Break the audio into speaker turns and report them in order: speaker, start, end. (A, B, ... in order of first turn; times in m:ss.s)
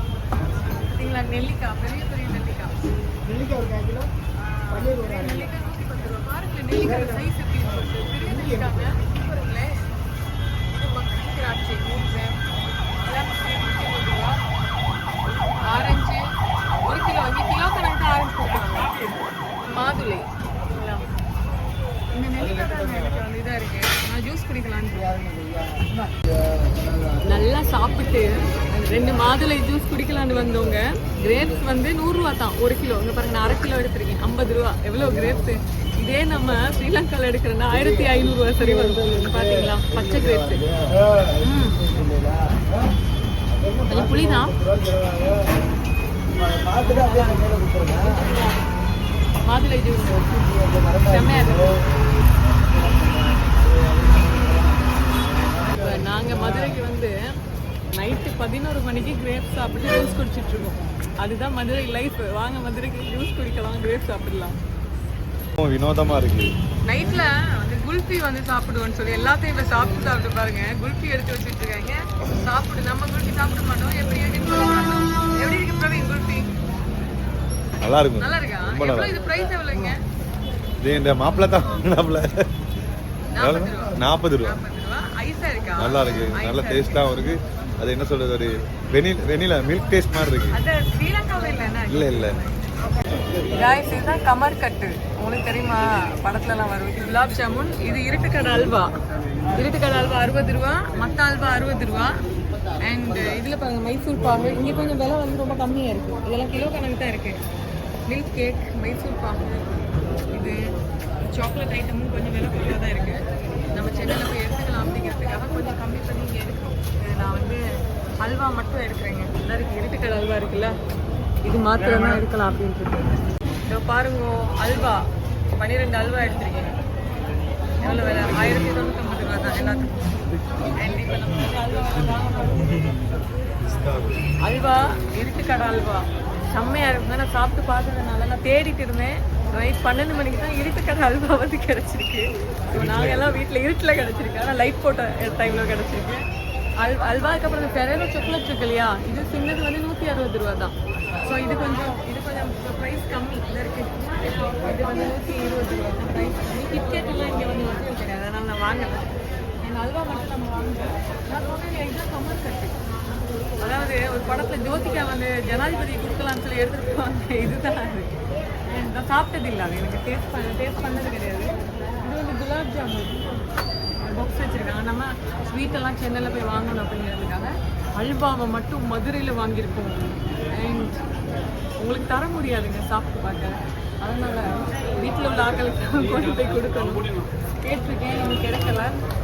0:00.7-0:02.7 A
0:03.3-0:04.1 B
0:04.4-0:09.8 A
0:04.9-0:05.4 B
0:10.7-0:12.4 A
0:13.0-0:14.4 A
0:15.6-0:16.2 A
0:16.8-0:21.1 A
0:22.1-0:25.2 A
0:22.4-0:23.1 C
0:26.8-0:27.1 B
0:27.2-0:40.6 A
0:38.6-0:39.1 B
0:41.4-0:41.8 A
0:41.5-0:42.7 B
0:43.7-0:45.4 B
0:43.9-0:44.5 A
0:46.8-0:48.6 A
0:47.3-0:47.9 B
0:49.5-0:51.8 A
0:52.7-0:54.9 B
0:55.8-0:57.2 A
0:57.9-1:04.6 A
1:05.6-1:06.5 C
1:06.8-1:16.4 A
1:17.8-1:19.2 C
1:18.2-1:20.0 A
1:20.8-1:22.3 C
1:23.3-1:27.0 A
1:23.4-1:24.6 C
1:25.8-1:30.6 C
1:30.5-1:32.6 A
1:31.9-1:32.4 C
1:33.5-1:38.9 A
1:39.5-1:42.2 A
1:42.8-1:47.4 A
1:48.1-1:50.6 A
1:51.2-1:53.2 A
1:53.7-1:57.6 A
1:58.2-2:00.8 A
2:01.4-2:05.0 A
2:05.6-2:06.8 A
2:07.8-2:09.9 A
2:10.7-2:12.8 A
2:13.7-2:14.1 C
2:14.4-2:26.2 A
2:22.7-2:23.3 C
2:26.8-2:39.0 A
2:39.6-2:42.8 A
2:43.6-2:48.1 A
2:48.6-2:53.5 A
2:54.0-3:01.0 A
3:01.8-3:07.1 A
3:07.6-3:08.9 A